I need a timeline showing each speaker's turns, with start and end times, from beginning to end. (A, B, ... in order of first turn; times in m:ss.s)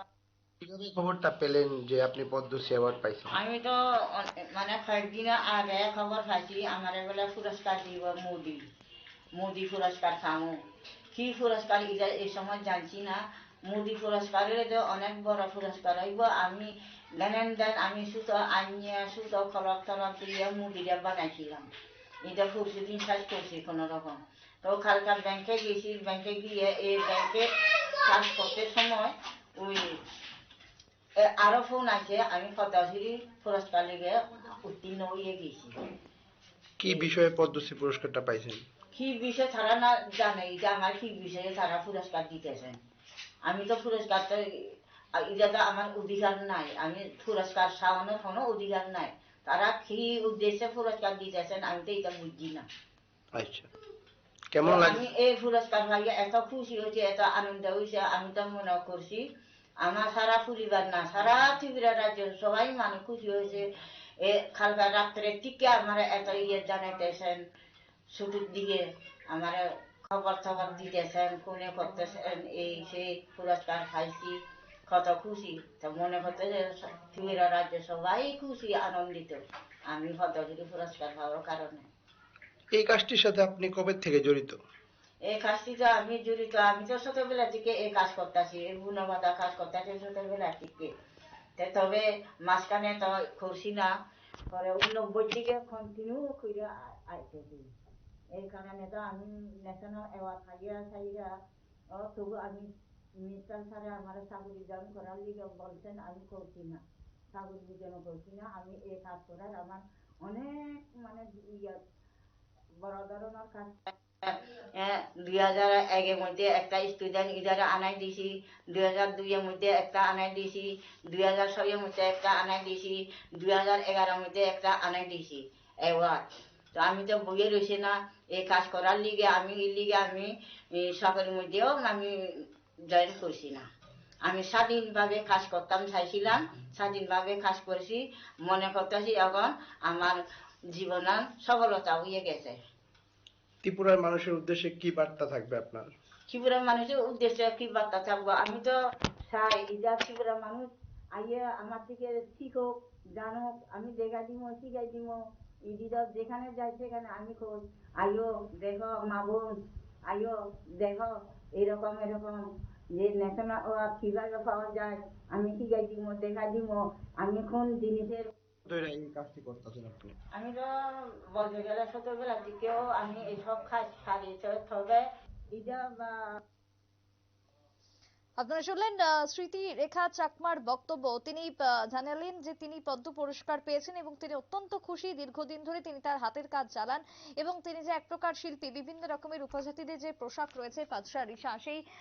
0:00.6-0:03.4 A
0:03.3-0:08.6 B
0:09.4-0:10.6 B
0:11.1-0:21.7 B
0:22.2-0:27.5 B
0:28.0-0:30.0 B
0:31.2-0:35.7 B
0:36.8-0:38.6 A
0:36.8-0:37.1 B
0:38.9-0:42.8 B
0:43.4-0:44.4 B
0:45.2-0:52.6 B
0:53.3-0:53.7 A
0:54.5-0:55.0 A
0:54.6-0:59.2 B
0:59.8-1:03.7 B
1:04.2-1:07.4 B
1:08.1-1:21.9 B
1:22.7-1:24.6 A
1:25.3-1:30.9 B
1:31.6-1:33.9 B
1:34.5-1:37.7 B
1:38.4-1:41.3 B
1:42.0-1:42.7 B
1:43.2-1:46.8 B
1:47.3-1:51.8 B
1:52.8-2:06.2 B
2:06.8-2:13.6 B
2:14.2-2:20.2 B
2:20.7-2:22.6 B
2:23.6-2:25.9 A
2:26.3-2:28.8 B
2:29.3-2:35.2 B
2:35.7-2:39.5 B
2:40.1-2:42.4 B
2:42.9-2:48.3 B
2:48.7-2:50.1 A
2:50.3-2:50.7 B
2:51.3-2:56.2 B
2:58.4-3:11.8 C